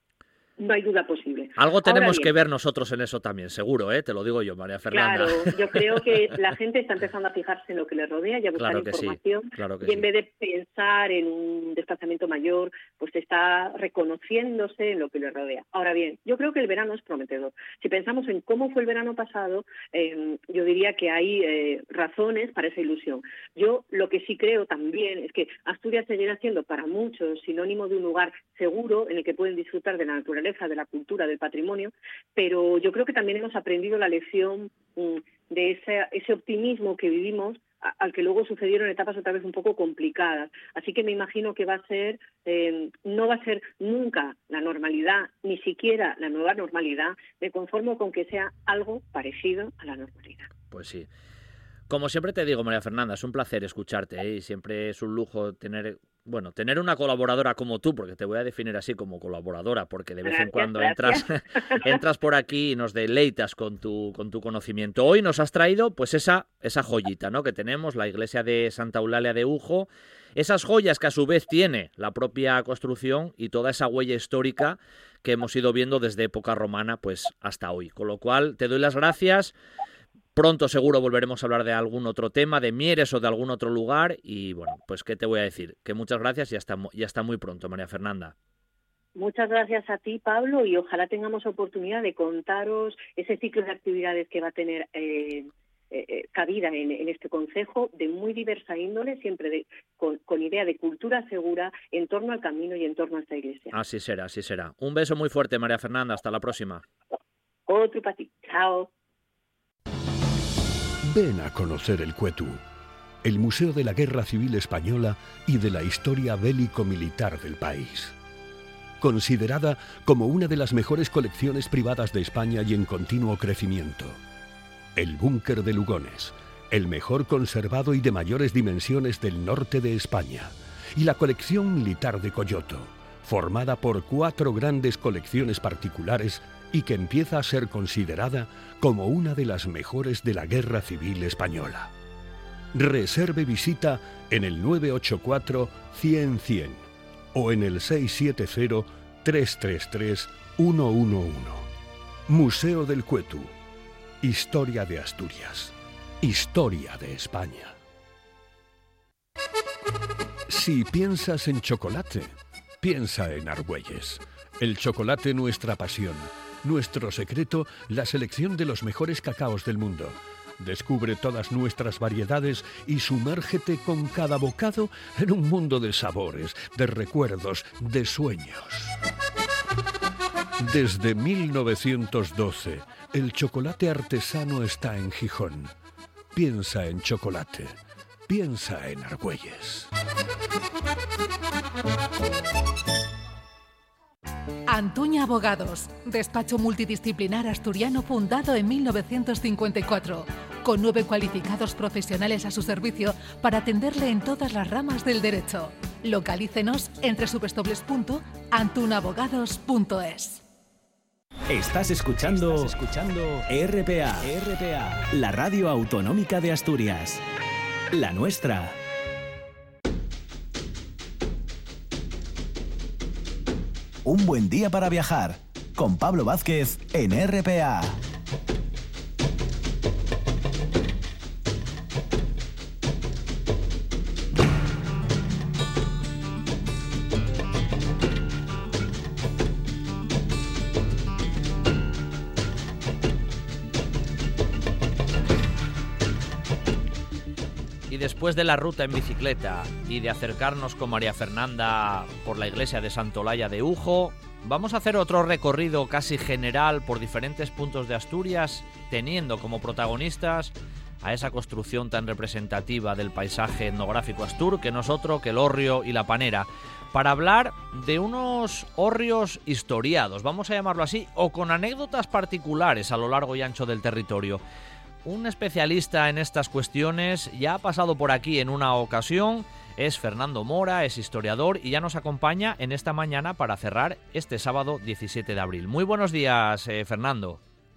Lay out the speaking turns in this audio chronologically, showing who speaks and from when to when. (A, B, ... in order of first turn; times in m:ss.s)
0:00.6-0:02.3 A
0:01.6-0:06.2 B
0:04.9-0:50.5 A
0:08.6-0:10.1 B
0:50.7-0:51.1 B
0:51.9-1:19.6 B
1:00.2-1:02.0 A
1:20.4-1:28.4 B
1:29.2-1:43.8 A
1:43.7-1:46.8 B
1:47.7-1:48.9 A
1:51.0-1:52.6 C
1:53.2-1:58.2 C
1:59.0-2:04.2 C
2:05.0-2:21.9 C
2:22.7-2:31.7 C
2:32.3-2:33.5 C
2:34.2-2:37.8 C
2:40.5-2:59.0 C
3:00.6-3:05.7 C
3:06.3-3:09.9 C
3:14.7-3:30.4 D
3:31.5-3:37.2 E
3:37.9-3:38.8 E
3:44.0-3:48.0 E
4:07.9-4:34.4 B
4:35.0-4:47.4 B